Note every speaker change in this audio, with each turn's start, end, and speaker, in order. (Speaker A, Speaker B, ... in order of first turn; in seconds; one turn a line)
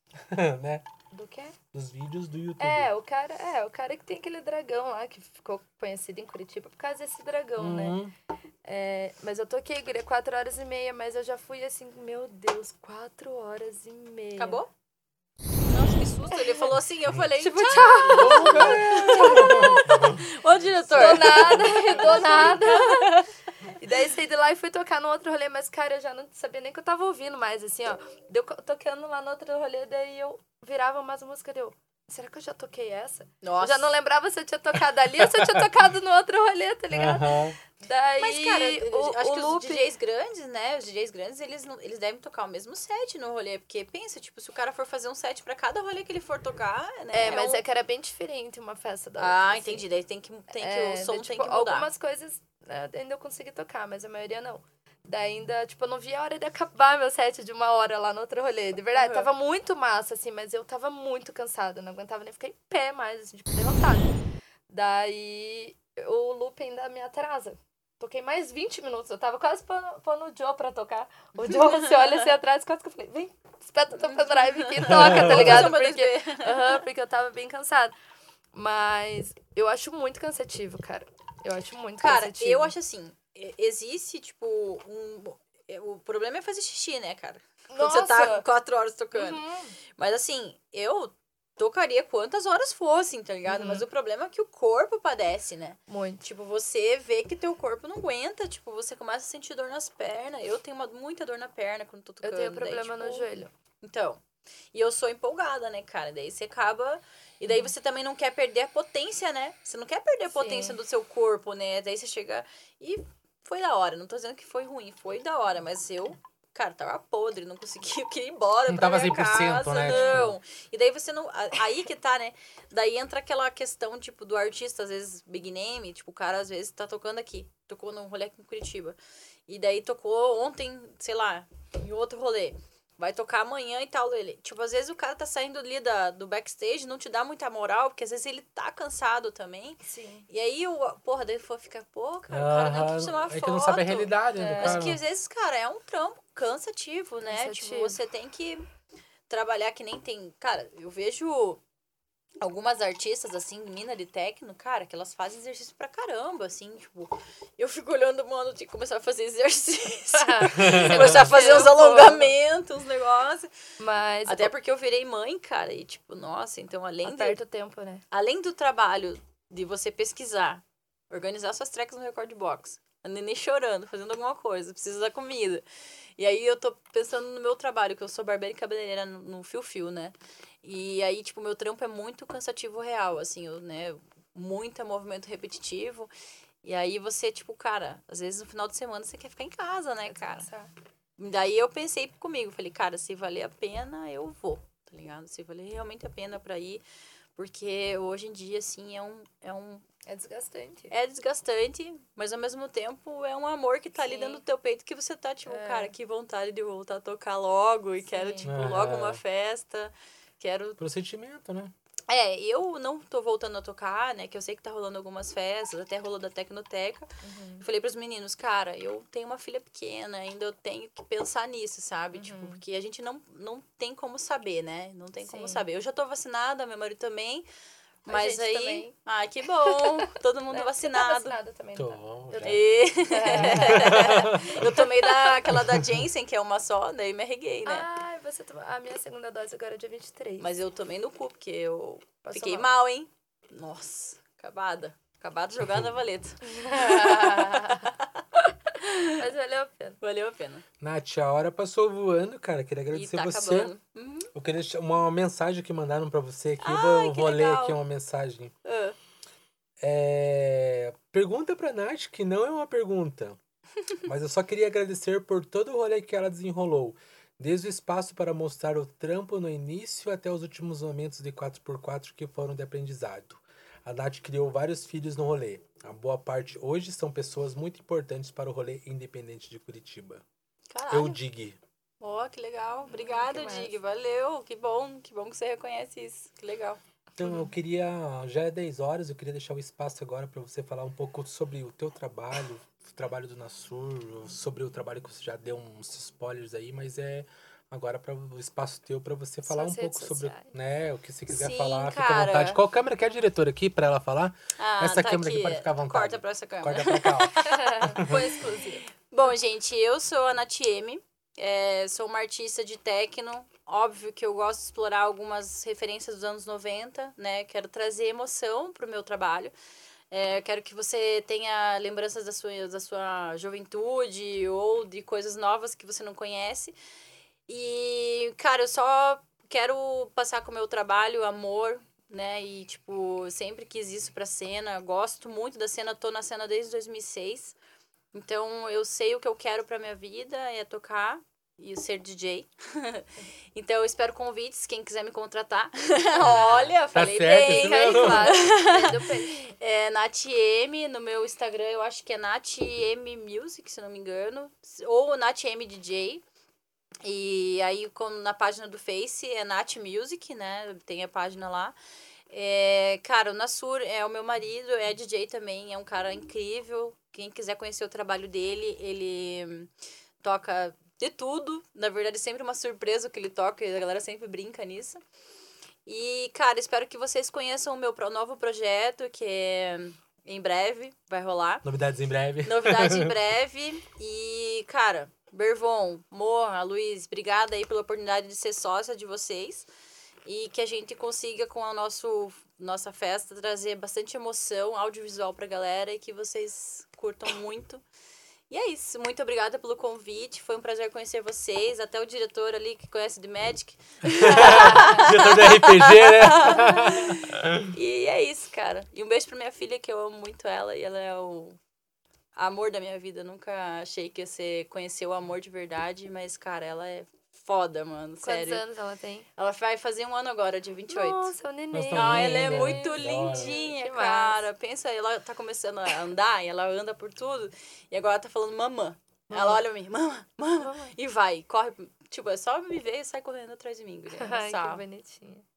Speaker A: 0.2-0.8
Speaker B: 1.1-1.6
Speaker A: 1.7-2.9
Speaker B: 2.6-8.0
Speaker A: 7.6-8.1
Speaker B: 8.6-14.6
Speaker C: 14.4-14.7
Speaker C: 15.7-23.3
Speaker B: 16.3-16.7
Speaker B: 17.4-20.1
Speaker A: 18.1-20.2
Speaker A: 20.9-21.4
Speaker B: 20.9-23.2
Speaker B: 23.8-39.9
Speaker C: 33.4-33.9
Speaker A: 35.2-35.7
Speaker A: 36.9-37.5
Speaker C: 38.2-47.6
Speaker B: 47.1-49.8
Speaker C: 49.2-51.9
Speaker B: 50.5-64.2
Speaker C: 58.9-59.3
Speaker B: 64.7-77.9
Speaker C: 71.5-72.3
Speaker C: 74.0-76.8
Speaker A: 74.8-75.8
Speaker B: 78.5-82.7
Speaker C: 82.0-89.4
Speaker B: 87.7-88.4
Speaker B: 89.1-89.7
Speaker C: 90.0-103.3
Speaker B: 93.5-93.8
Speaker B: 95.9-96.2
Speaker B: 102.2-103.5
Speaker C: 103.8-104.2
Speaker C: 104.7-128.9
Speaker B: 110.3-110.8
Speaker A: 118.7-120.4
Speaker B: 119.9-120.2
Speaker C: 129.5-148.7
Speaker B: 139.8-140.3
Speaker A: 142.3-145.0
Speaker B: 144.4-144.8
Speaker B: 147.2-148.0
Speaker C: 149.3-151.6
Speaker C: 152.4-163.5
Speaker B: 160.1-162.3
Speaker A: 160.6-161.1
Speaker B: 163.8-164.5
Speaker C: 164.2-167.4
Speaker B: 167.0-168.0
Speaker C: 168.1-175.6
Speaker C: 176.2-186.1
Speaker C: 186.6-190.5
Speaker B: 190.1-190.7
Speaker C: 191.2-196.8
Speaker C: 197.3-199.8
Speaker B: 200.1-200.9
Speaker C: 200.9-210.8
Speaker B: 203.9-204.4
Speaker B: 205.5-205.9
Speaker B: 208.0-208.6
Speaker A: 208.4-209.2
Speaker A: 210.8-211.7
Speaker C: 212.1-227.4
Speaker B: 217.2-217.6
Speaker B: 222.1-222.6
Speaker B: 225.2-225.6
Speaker C: 228.0-231.3
Speaker B: 228.1-228.9
Speaker B: 229.7-234.9
Speaker A: 231.7-232.6
Speaker C: 232.4-237.9
Speaker A: 233.3-234.8
Speaker A: 235.5-235.9
Speaker B: 237.7-240.5
Speaker C: 240.4-248.2
Speaker B: 242.2-242.7
Speaker B: 246.4-247.9
Speaker B: 248.7-250.0
Speaker C: 248.8-249.2
Speaker C: 250.0-250.6
Speaker A: 250.8-253.7
Speaker C: 252.9-254.3
Speaker A: 254.3-258.5
Speaker C: 256.6-257.8
Speaker C: 258.6-259.0
Speaker A: 259.8-263.4
Speaker A: 264.0-280.2
Speaker C: 280.7-281.2
Speaker A: 280.9-281.6
Speaker C: 282.0-286.8
Speaker B: 283.1-283.7
Speaker A: 287.2-308.2
Speaker B: 299.4-300.5
Speaker C: 301.3-302.6
Speaker C: 304.6-319.5
Speaker B: 307.4-308.8
Speaker C: 320.1-326.7
Speaker C: 327.5-337.6
Speaker C: 338.1-356.2
Speaker A: 346.2-348.4
Speaker B: 347.4-349.5
Speaker C: 357.0-361.7
Speaker C: 362.3-369.7
Speaker C: 370.2-375.0
Speaker C: 375.9-381.6
Speaker A: 381.6-383.1
Speaker C: 382.4-389.7
Speaker C: 390.2-397.8
Speaker C: 398.5-411.6
Speaker A: 404.2-407.7
Speaker B: 404.2-405.1
Speaker B: 406.5-406.8
Speaker C: 412.4-418.6
Speaker B: 418.2-419.3
Speaker C: 419.4-421.3
Speaker B: 420.9-424.5
Speaker A: 421.7-423.6
Speaker C: 421.9-434.8
Speaker B: 429.3-429.6
Speaker B: 430.6-430.9
Speaker B: 434.2-435.4